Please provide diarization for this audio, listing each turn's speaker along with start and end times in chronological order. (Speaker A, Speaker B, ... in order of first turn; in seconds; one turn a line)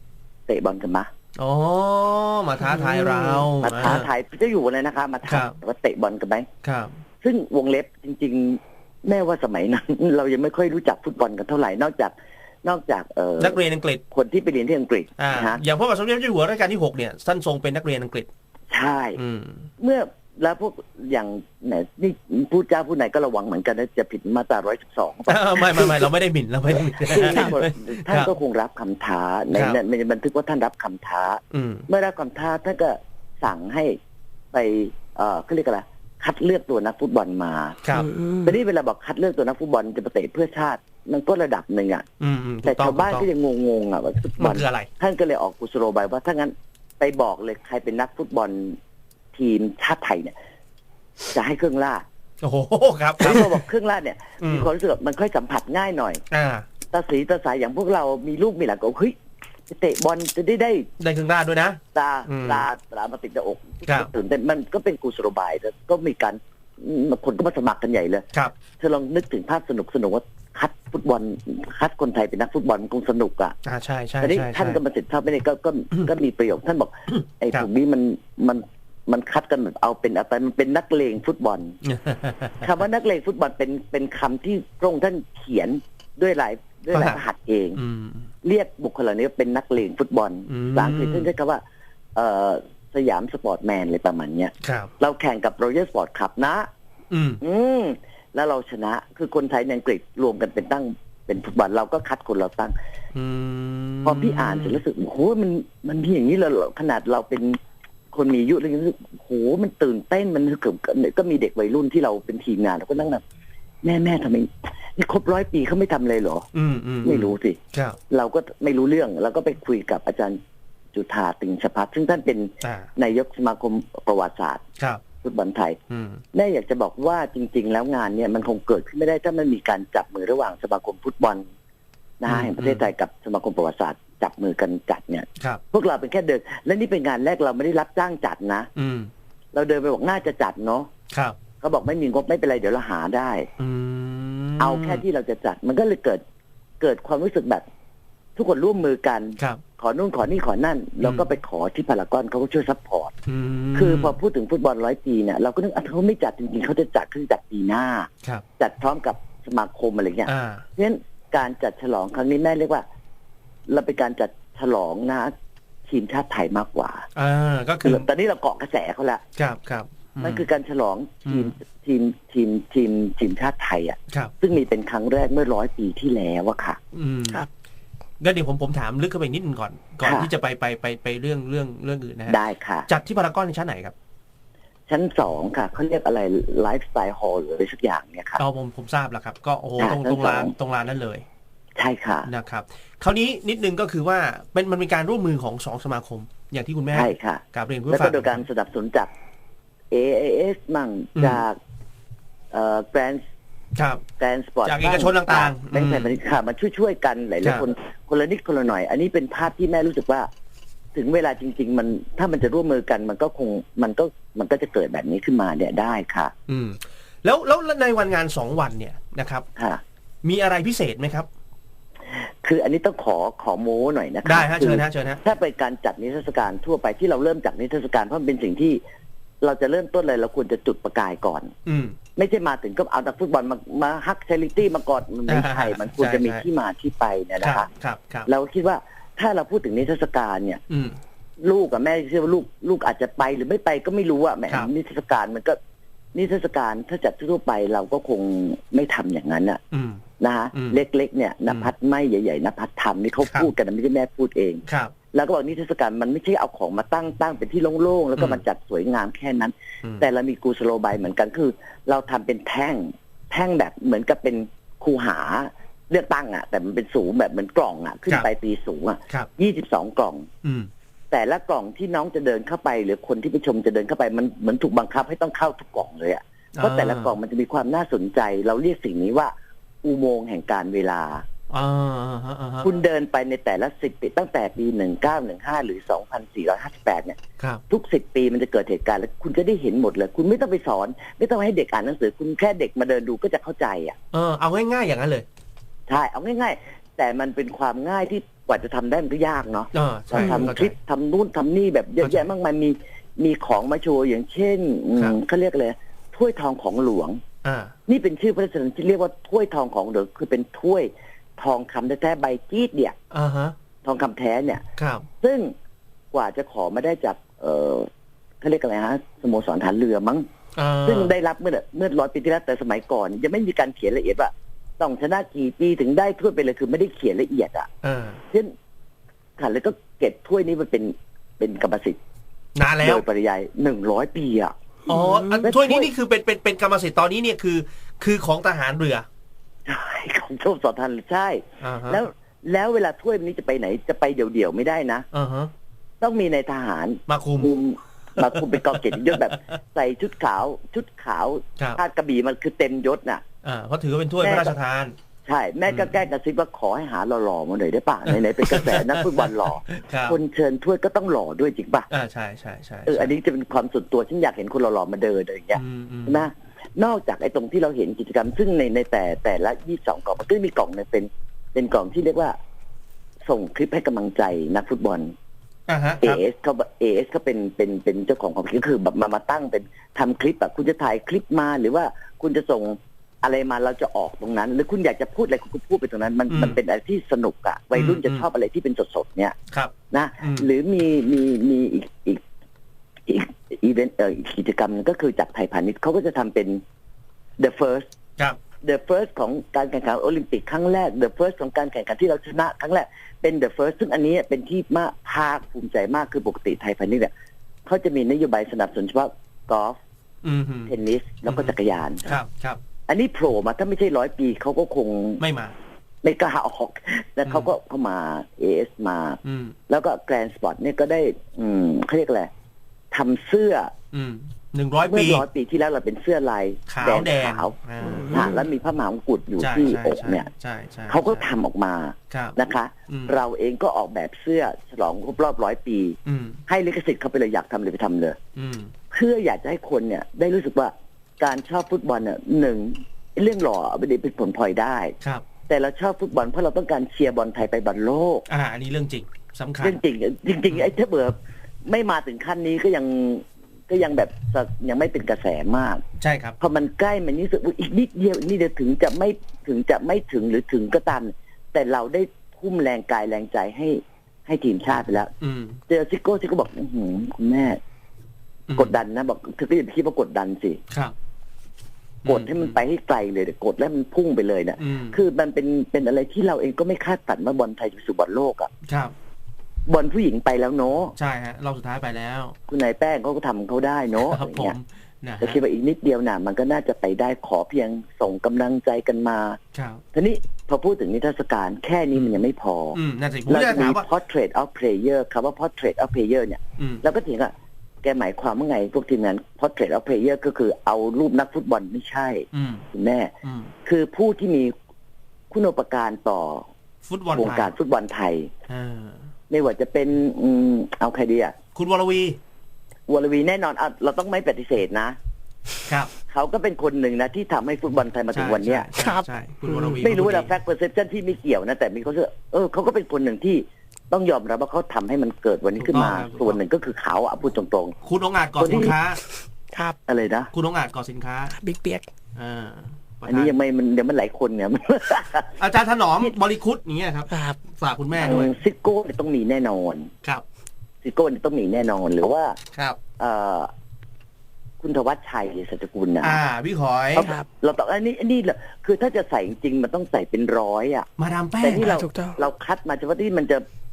Speaker A: 0.5-1.1
Speaker B: 1.4-4.1
Speaker C: 2.6-3.5
Speaker A: 3.6-6.5
Speaker B: 5.3-5.5
Speaker B: 6.6-6.9
Speaker A: 7.2-13.6
Speaker B: 13.4-14.0
Speaker A: 14.1-15.6
Speaker B: 15.2-18.3
Speaker A: 18.7-19.2
Speaker B: 19.2-19.7
Speaker A: 19.8-26.0
Speaker B: 25.2-28.3
Speaker A: 26.7-34.0
Speaker C: 27.3-27.6
Speaker B: 31.5-31.9
Speaker A: 34.5-37.8
Speaker C: 37.9-38.6
Speaker A: 38.4-42.0
Speaker B: 42.2-43.3
Speaker A: 42.6-48.8
Speaker B: 44.4-44.9
Speaker A: 49.3-50.3
Speaker A: 51.3-52.0
Speaker B: 52.4-53.5
Speaker A: 53.2-56.2
Speaker B: 54.4-54.7
Speaker B: 56.3-56.6
Speaker A: 56.9-59.1
Speaker A: 59.7-60.9
Speaker B: 61.0-62.6
Speaker A: 61.9-68.2
Speaker A: 68.8-73.5
Speaker B: 73.6-74.8
Speaker A: 74.2-81.8
Speaker B: 81.8-82.6
Speaker A: 82.6-87.8
Speaker B: 86.9-87.2
Speaker B: 87.8-88.3
Speaker A: 88.4-91.6
Speaker B: 90.5-91.3
Speaker A: 92.1-96.7
Speaker B: 94.6-94.9
Speaker B: 97.1-97.4
Speaker A: 97.4-102.7
Speaker B: 103.1-104.8
Speaker A: 104.0-107.6
Speaker A: 108.1-113.2
Speaker A: 113.8-116.5
Speaker B: 116.5-118.0
Speaker A: 117.0-120.4
Speaker A: 120.9-124.6
Speaker B: 122.6-122.9
Speaker A: 125.2-125.8
Speaker B: 125.9-126.2
Speaker A: 126.3-131.5
Speaker A: 132.2-138.7
Speaker B: 132.3-132.8
Speaker B: 138.7-139.1
Speaker A: 139.5-140.9
Speaker B: 141.1-141.4
Speaker A: 141.6-143.5
Speaker B: 143.6-145.0
Speaker A: 144.6-146.2
Speaker A: 146.8-147.6
Speaker A: 148.3-153.2
Speaker B: 153.3-154.2
Speaker A: 153.7-162.8
Speaker B: 160.3-160.7
Speaker A: 163.7-165.3
Speaker A: 165.9-167.1
Speaker B: 167.1-168.1
Speaker A: 167.8-169.2
Speaker B: 169.4-170.4
Speaker A: 170.2-176.8
Speaker B: 171.2-171.5
Speaker B: 176.9-177.4
Speaker B: 178.2-183.9
Speaker A: 180.0-180.3
Speaker A: 182.3-182.9
Speaker A: 184.9-188.4
Speaker B: 188.4-191.2
Speaker A: 189.8-190.5
Speaker A: 191.8-192.3
Speaker B: 192.3-198.4
Speaker A: 196.9-199.1
Speaker A: 199.9-201.6
Speaker B: 201.2-201.4
Speaker A: 202.5-203.2
Speaker B: 203.7-204.0
Speaker A: 204.2-210.3
Speaker B: 204.6-206.1
Speaker A: 210.9-216.3
Speaker B: 216.5-219.4
Speaker A: 219.6-219.8
Speaker B: 220.2-221.3
Speaker A: 222.1-228.8
Speaker B: 224.2-225.2
Speaker A: 229.4-231.5
Speaker B: 231.7-232.0
Speaker A: 232.2-237.7
Speaker B: 235.3-236.4
Speaker B: 237.4-238.3
Speaker A: 238.3-240.6
Speaker B: 240.7-241.0
Speaker A: 241.4-245.6
Speaker A: 246.1-249.6
Speaker B: 249.7-250.0
Speaker A: 250.2-270.3
Speaker B: 250.5-250.8
Speaker B: 254.7-254.9
Speaker B: 258.2-258.4
Speaker B: 270.4-270.7
Speaker A: 271.1-281.2
Speaker B: 276.6-277.1
Speaker B: 281.5-282.7
Speaker A: 282.6-293.9
Speaker B: 294.1-295.2
Speaker A: 295.9-307.2
Speaker B: 299.7-300.7
Speaker B: 302.0-302.3
Speaker B: 307.4-307.7
Speaker A: 307.9-313.0
Speaker B: 313.1-313.5
Speaker A: 313.8-314.6
Speaker B: 314.8-315.1
Speaker A: 315.2-315.5
Speaker A: 316.1-317.9
Speaker A: 318.4-320.3
Speaker B: 320.5-321.1
Speaker A: 320.8-327.7
Speaker B: 327.8-328.2
Speaker A: 329.4-332.0
Speaker B: 332.5-333.0
Speaker A: 332.8-334.5
Speaker B: 334.9-339.1
Speaker C: 334.9-335.4
Speaker A: 335.4-335.9
Speaker A: 339.6-345.1
Speaker B: 341.6-342.0
Speaker B: 345.1-345.5
Speaker A: 346.0-353.2
Speaker B: 347.1-347.5
Speaker B: 348.2-349.2
Speaker B: 353.4-354.9
Speaker A: 354.2-354.5
Speaker A: 355.2-361.9
Speaker B: 355.7-355.9
Speaker B: 358.1-360.2
Speaker B: 361.9-363.1
Speaker A: 362.9-372.4
Speaker B: 365.5-366.2
Speaker A: 373.2-375.1
Speaker B: 375.7-376.2
Speaker A: 376.0-389.4
Speaker B: 386.3-386.6
Speaker B: 387.7-388.3
Speaker B: 389.5-390.5
Speaker A: 389.9-392.2
Speaker A: 393.1-396.6
Speaker A: 397.4-397.9
Speaker A: 398.6-407.1
Speaker A: 407.6-409.8
Speaker B: 410.2-410.7
Speaker A: 410.7-412.1
Speaker B: 411.2-411.5
Speaker B: 412.0-412.6
Speaker A: 412.9-415.2
Speaker B: 415.2-415.5
Speaker A: 416.0-422.3
Speaker B: 419.2-419.6
Speaker A: 422.9-423.7
Speaker B: 423.9-425.2
Speaker A: 424.9-430.3
Speaker B: 426.7-428.4
Speaker C: 427.8-428.3
Speaker B: 429.4-431.2
Speaker A: 430.9-438.2
Speaker B: 432.1-432.4
Speaker B: 432.9-433.1
Speaker B: 436.1-436.4
Speaker B: 438.3-438.7
Speaker A: 438.9-444.9
Speaker A: 445.5-448.2
Speaker B: 448.3-449.8
Speaker A: 449.6-455.8
Speaker B: 456.0-456.4
Speaker A: 456.4-465.1
Speaker B: 465.2-465.6
Speaker A: 465.7-467.6
Speaker B: 468.5-468.8
Speaker A: 468.5-470.6
Speaker B: 470.7-470.9
Speaker B: 472.0-472.6
Speaker A: 472.0-478.5
Speaker B: 474.6-475.0
Speaker B: 478.7-478.9
Speaker A: 479.7-480.9
Speaker B: 481.0-482.4
Speaker A: 482.5-484.5
Speaker B: 484.0-485.4
Speaker A: 485.2-489.4
Speaker B: 489.5-489.8
Speaker A: 489.9-503.1
Speaker B: 492.7-493.9
Speaker B: 496.6-496.8
Speaker B: 502.3-502.6
Speaker B: 503.2-503.5
Speaker A: 503.6-504.5
Speaker A: 505.3-506.5
Speaker B: 506.9-507.5
Speaker A: 507.1-508.3
Speaker B: 508.5-509.1
Speaker A: 509.3-511.3
Speaker B: 511.5-512.2
Speaker A: 512.9-515.0
Speaker A: 516.1-518.7
Speaker B: 518.1-520.3
Speaker C: 518.8-519.8
Speaker A: 519.8-527.8
Speaker B: 525.6-526.4
Speaker B: 527.8-529.0
Speaker A: 528.4-528.7
Speaker C: 529.5-529.8
Speaker A: 529.9-530.3
Speaker B: 530.3-531.3
Speaker C: 531.3-531.9
Speaker B: 532.1-533.3
Speaker A: 533.0-535.4
Speaker B: 535.4-538.3
Speaker C: 537.1-537.4
Speaker A: 538.0-539.9
Speaker A: 540.8-542.4
Speaker B: 542.5-542.8
Speaker A: 543.0-543.5
Speaker A: 544.6-546.2
Speaker B: 546.0-547.1
Speaker A: 546.9-550.9
Speaker B: 551.0-551.8
Speaker A: 551.4-553.4
Speaker C: 551.5-552.2